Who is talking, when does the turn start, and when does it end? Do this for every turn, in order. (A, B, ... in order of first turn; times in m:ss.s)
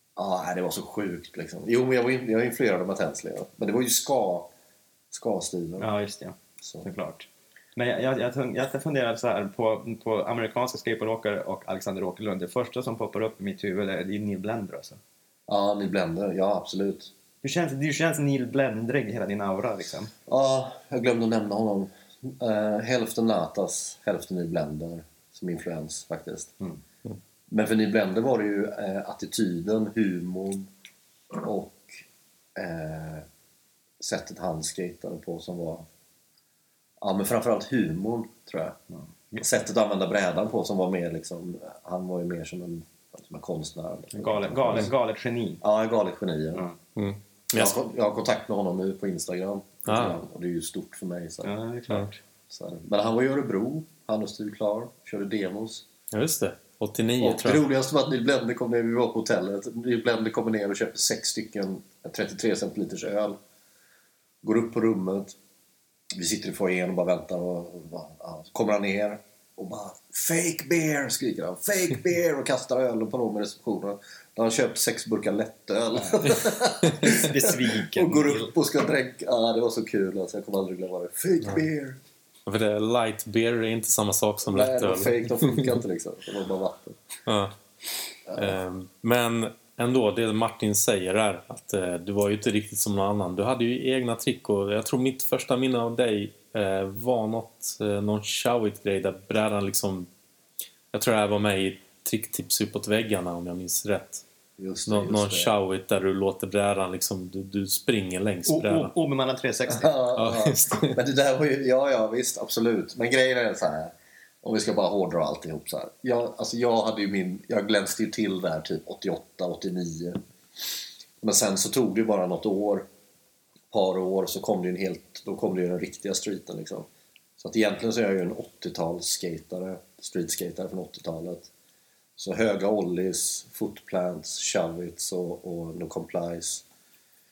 0:00.2-0:04.5 A
0:05.1-0:05.9 A
0:05.8-0:15.0 B
0:15.5-0:17.1 A
0:17.4-0:20.1 B
0:20.3-0:26.5 A
0:27.5-0:30.7 A
0:31.3-0:33.3 A
0:34.0-0:35.8 A
0:37.0-0:38.8 A
0:38.9-0:39.4 B
0:39.4-0:44.9 A
0:44.1-0:45.6 B
0:45.6-0:46.6 A
0:47.0-0:47.8 C
0:47.5-0:51.5 A
0:49.8-0:50.2 C
0:51.4-0:52.2 B
0:52.5-0:55.8 A
0:56.1-0:57.6 C
0:57.2-1:03.4 A
1:04.4-1:05.4 A
1:06.2-1:22.0 A
1:16.0-1:16.2 B
1:16.9-1:18.5 B
1:22.5-1:25.7 C
1:24.5-1:27.0 A
1:27.3-1:27.5 C
1:28.3-1:28.6 A
1:28.4-1:40.1 C
1:40.9-1:44.2 C
1:44.6-1:45.5 A
1:44.8-1:48.9 C
1:48.5-1:50.0 B
1:49.7-2:02.8 A
1:50.2-1:51.0 C
2:03.7-2:11.5 A
2:12.2-2:16.6 A